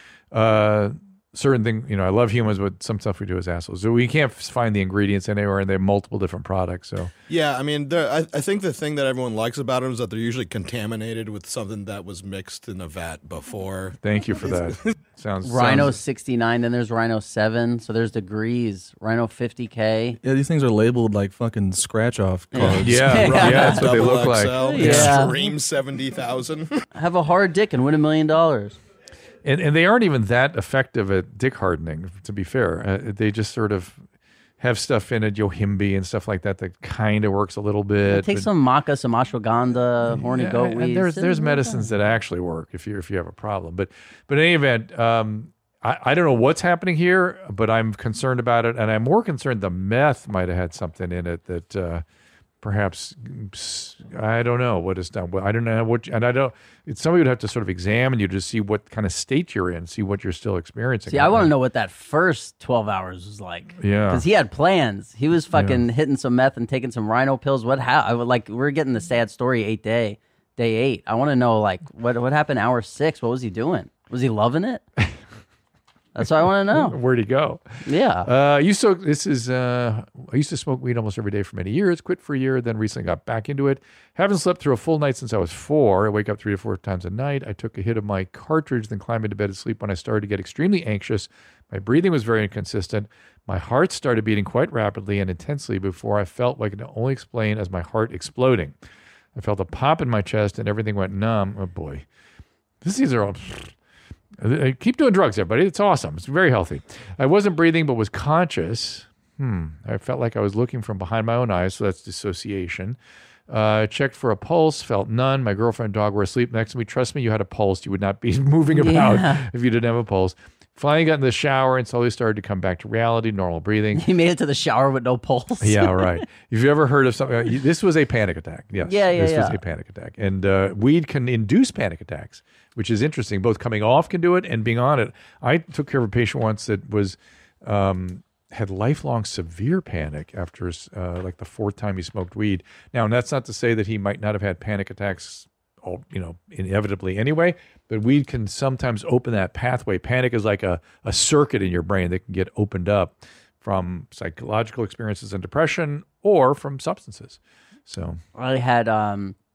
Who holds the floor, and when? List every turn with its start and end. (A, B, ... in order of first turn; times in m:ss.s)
0:00.3-0:07.1 A
0:07.3-0:15.0 B
0:14.0-0:16.0 A
0:15.4-0:20.2 C
0:20.2-0:23.4 D
0:22.5-0:23.9 C
0:22.5-0:26.8 B
0:22.6-0:25.2 A
0:24.7-0:25.4 C
0:27.0-0:28.8 C
0:29.4-0:34.0 A
0:34.6-0:38.5 A
0:38.1-0:41.9 C
0:40.1-0:52.0 A
0:52.6-1:01.5 A
1:01.1-1:14.8 C
1:03.8-1:04.2 A
1:05.6-1:05.8 A
1:16.2-1:17.0 C
1:16.7-1:17.6 A
1:17.8-1:18.3 C
1:18.2-1:38.7 A
1:39.4-1:42.0 A
1:42.8-1:43.7 A
1:44.4-1:53.0 A
1:53.5-2:04.0 A
1:58.8-1:59.4 C
2:04.0-2:06.2 C
2:05.6-2:38.2 A
2:08.8-2:09.6 C
2:38.4-2:39.4 C